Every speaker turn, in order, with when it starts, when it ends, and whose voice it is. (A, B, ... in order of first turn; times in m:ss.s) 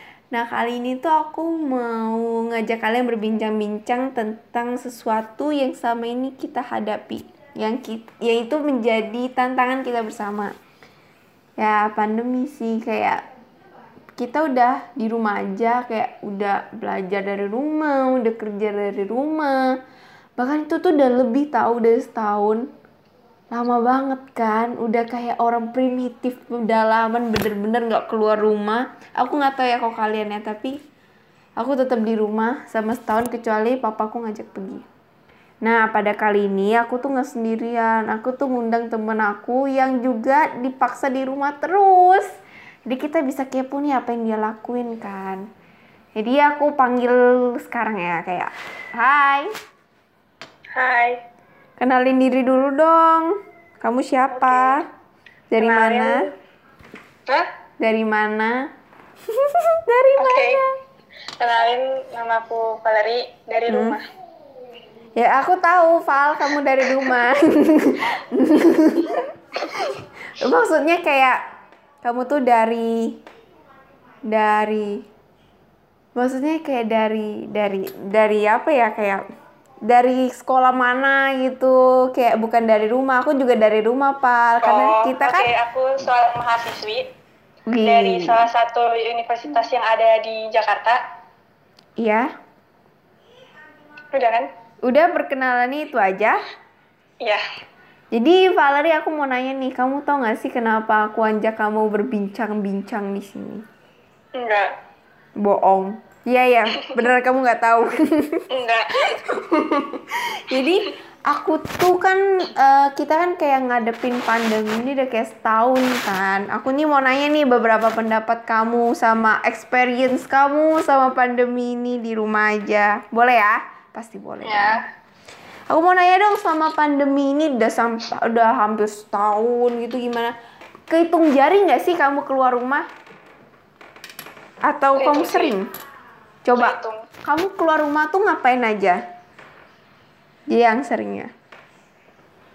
0:00.3-0:10.5 A
0:11.6-0:13.2 A
0:14.2-0:19.6 A
0:20.4-0:22.7 A
0:23.5-0:30.8 A
0:31.6-0:34.8 A
0:35.6-0:42.3 A
0:42.9-0:45.4 A
0:46.2-0:49.5 A
0:50.7-0:51.2 B
0:51.8-0:54.8 A
0:54.3-0:54.8 B
0:55.5-0:56.3 A
0:55.6-0:56.3 B
0:57.8-0:58.6 A
0:59.4-1:00.7 A
1:00.2-1:00.6 B
1:01.4-1:04.0 B
1:03.7-1:04.0 A
1:05.2-1:09.3 A
1:09.8-1:11.4 A
1:12.0-1:13.2 A
1:14.2-1:15.0 A
1:16.1-1:19.2 A
1:19.9-1:25.5 A
1:24.6-1:27.1 B
1:27.7-1:28.4 A
1:27.8-1:31.0 B
1:32.0-1:32.3 A
1:34.1-1:34.5 B
1:34.8-1:36.4 A
1:38.1-1:43.6 A
1:44.4-1:44.7 B
1:45.4-1:48.4 A
1:48.5-1:49.2 B
1:49.2-2:04.7 A
1:50.6-1:50.9 B
2:04.4-2:04.8 B
2:05.7-2:10.3 A
2:10.9-2:12.8 A
2:14.6-2:15.7 A
2:15.0-2:15.6 B
2:16.4-2:19.0 A
2:16.5-2:17.0 B
2:20.5-2:21.3 A